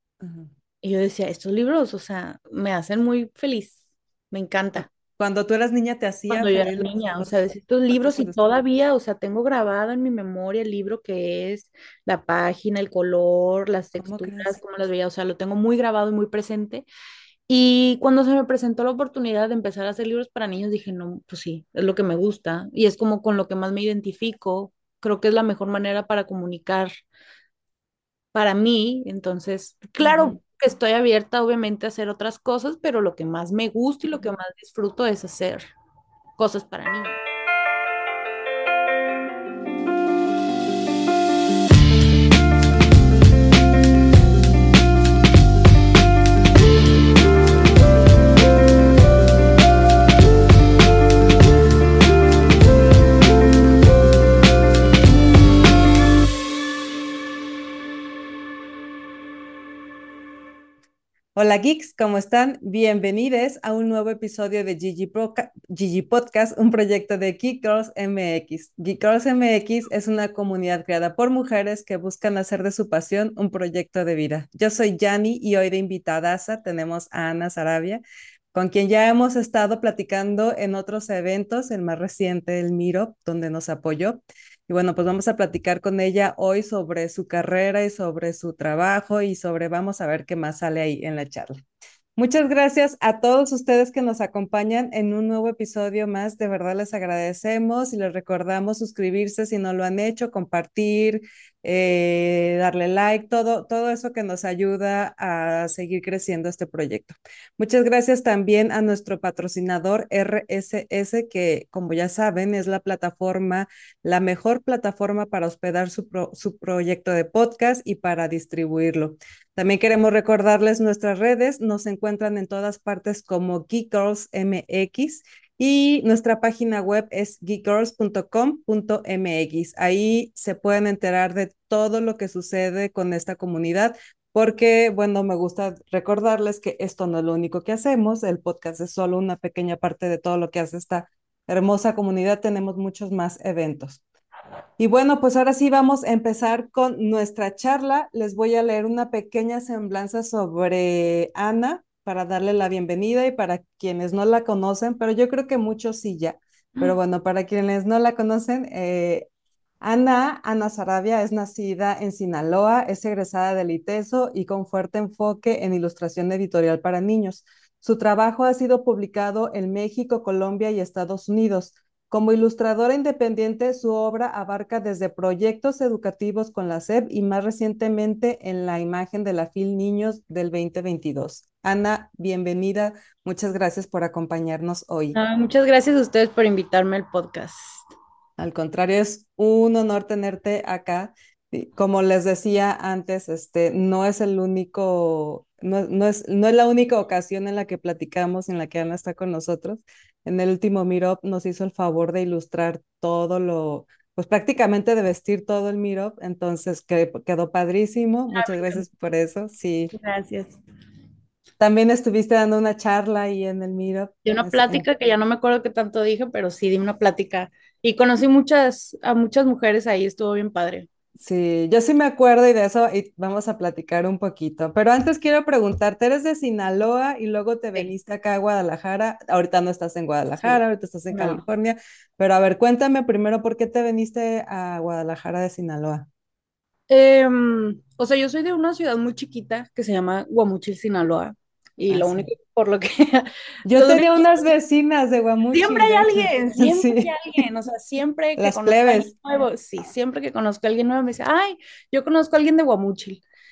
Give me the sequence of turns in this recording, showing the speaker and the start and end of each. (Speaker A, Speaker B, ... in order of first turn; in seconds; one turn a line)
Speaker A: 0.2-0.5
Speaker B: 0.8-3.8
Speaker B: 4.3-4.9
Speaker A: 5.2-7.4
Speaker B: 6.3-16.9
Speaker A: 7.9-8.6
Speaker A: 14.0-14.6
Speaker B: 17.5-26.9
Speaker B: 28.3-35.7
Speaker A: 30.0-30.4
Speaker B: 36.4-37.2
Speaker A: 61.3-78.0
Speaker A: 78.5-91.6
Speaker A: 92.2-144.0
Speaker A: 144.8-159.2
Speaker A: 159.8-185.2
Speaker B: 185.1-187.8
Speaker A: 188.4-209.9
Speaker B: 208.3-208.8
Speaker B: 209.9-210.6
Speaker A: 211.6-214.8
Speaker B: 214.2-220.9
Speaker A: 221.2-236.1
Speaker B: 230.3-231.4
Speaker B: 236.9-244.5
Speaker A: 241.9-242.3
Speaker A: 243.6-247.1
Speaker B: 245.5-253.2
Speaker A: 248.4-249.1